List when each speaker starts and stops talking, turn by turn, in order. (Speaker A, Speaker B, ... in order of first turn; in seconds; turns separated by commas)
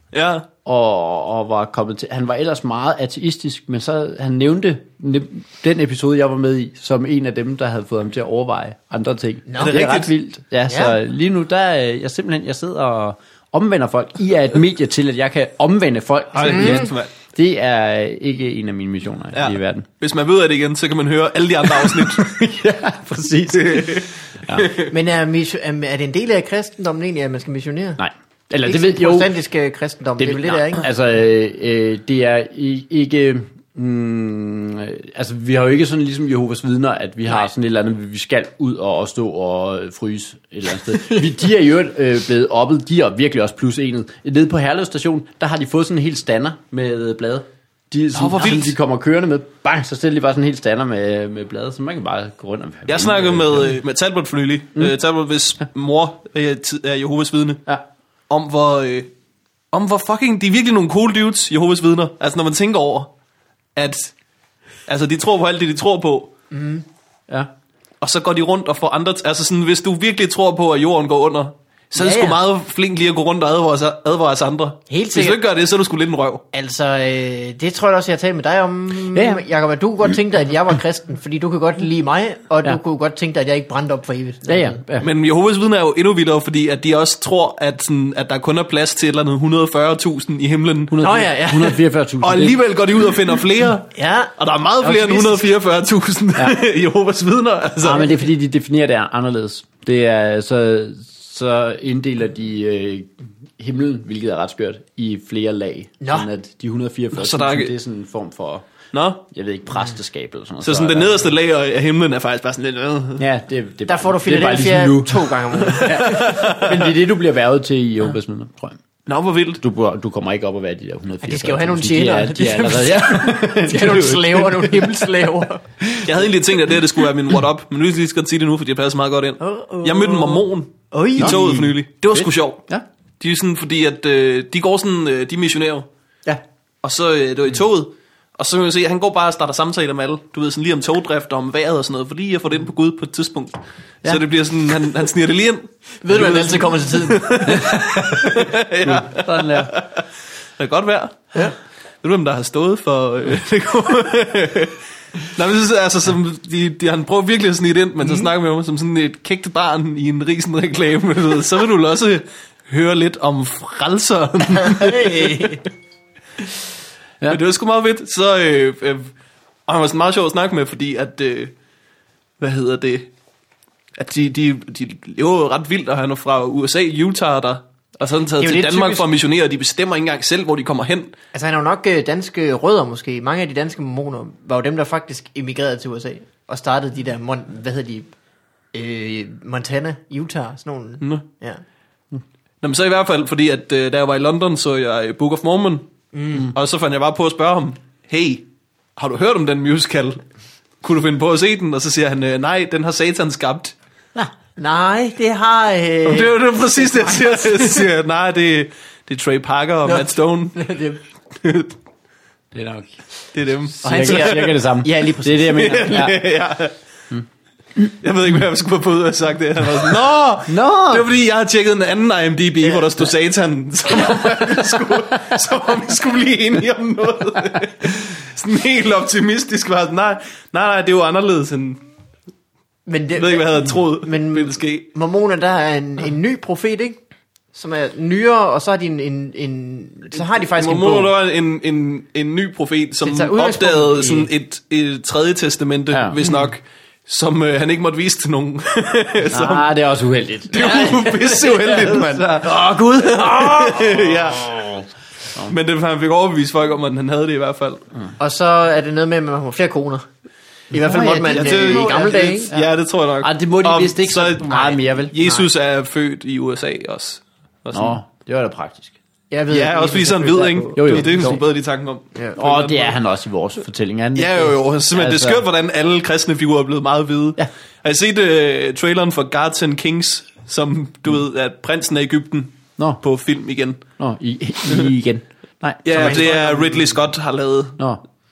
Speaker A: 0.1-0.5, Speaker B: 0.6-19.9, Speaker C: 9.5-9.7, Speaker A: 9.6-10.1, Speaker C: 10.7-10.9, Speaker A: 16.3-17.1, Speaker C: 16.5-16.9, Speaker A: 19.3-22.3, Speaker B: 21.7-24.7, Speaker A: 23.5-24.9, Speaker C: 24.9-28.0, Speaker B: 28.0-29.3, Speaker C: 28.6-30.9, Speaker B: 30.2-53.8, Speaker A: 48.1-48.8, Speaker A: 52.9-57.6, Speaker A: 58.3-59.1, Speaker A: 59.7-63.1, Speaker A: 63.8-64.1, Speaker A: 64.9-66.3, Speaker C: 66.5-66.8, Speaker A: 68.0-76.4, Speaker C: 72.0-72.4, Speaker C: 74.9-75.4, Speaker C: 76.5-84.8, Speaker B: 79.1-79.4, Speaker B: 84.5-85.1, Speaker A: 85.0-91.0, Speaker B: 90.9-92.6, Speaker C: 91.0-91.8, Speaker A: 92.2-98.1, Speaker C: 93.9-95.5, Speaker B: 97.8-108.7, Speaker C: 106.0-106.3, Speaker A: 107.1-107.7, Speaker A: 108.9-109.2, Speaker B: 109.3-111.3, Speaker A: 110.6-113.2, Speaker B: 113.2-118.8, Speaker C: 113.9-116.4, Speaker A: 115.8-116.9, Speaker A: 119.1-119.6, Speaker B: 119.6-125.0, Speaker C: 121.2-125.6, Speaker B: 125.8-126.1, Speaker A: 126.0-132.6, Speaker C: 129.4-132.2, Speaker B: 131.2-132.8, Speaker A: 133.2-135.9, Speaker A: 136.8-150.0, Speaker C: 146.0-147.8, Speaker B: 147.5-149.7, Speaker A: 150.6-151.4, Speaker A: 152.0-165.5, Speaker C: 164.6-165.6, Speaker A: 167.3-169.1, Speaker A: 169.7-171.5, Speaker A: 172.4-173.1, Speaker A: 174.0-181.1, Speaker C: 178.4-179.1, Speaker C: 181.3-188.1, Speaker C: 188.7-191.6, Speaker A: 192.6-195.8, Speaker C: 196.1-196.5, Speaker A: 196.4-198.4, Speaker A: 199.0-200.2, Speaker A: 200.8-203.7, Speaker C: 204.6-207.9, Speaker A: 206.1-210.6, Speaker C: 209.8-211.0, Speaker A: 211.4-211.7, Speaker B: 212.5-213.0, Speaker A: 213.3-214.5, Speaker B: 213.7-216.2, Speaker C: 213.8-215.9, Speaker A: 215.5-216.7, Speaker A: 218.0-231.8, Speaker B: 220.4-221.1, Speaker C: 232.9-237.0, Speaker A: 233.2-234.8, Speaker C: 237.5-241.1, Speaker A: 240.4-249.7, Speaker C: 243.0-244.3, Speaker B: 245.9-246.2, Speaker C: 246.2-246.5, Speaker B: 249.3-252.2, Speaker A: 250.5-254.7, Speaker C: 252.4-254.1, Speaker B: 254.4-254.8, Speaker A: 255.5-257.8, Speaker C: 258.2-260.1, Speaker C: 260.7-262.5, Speaker B: 260.7-265.2, Speaker A: 261.2-268.0, Speaker C: 265.1-265.5, Speaker B: 267.7-268.9, Speaker C: 269.3-271.4, Speaker A: 269.5-272.9, Speaker B: 270.8-271.4, Speaker B: 272.4-275.4, Speaker A: 274.1-283.8, Speaker B: 284.0-286.2, Speaker A: 285.8-287.8, Speaker C: 285.9-286.9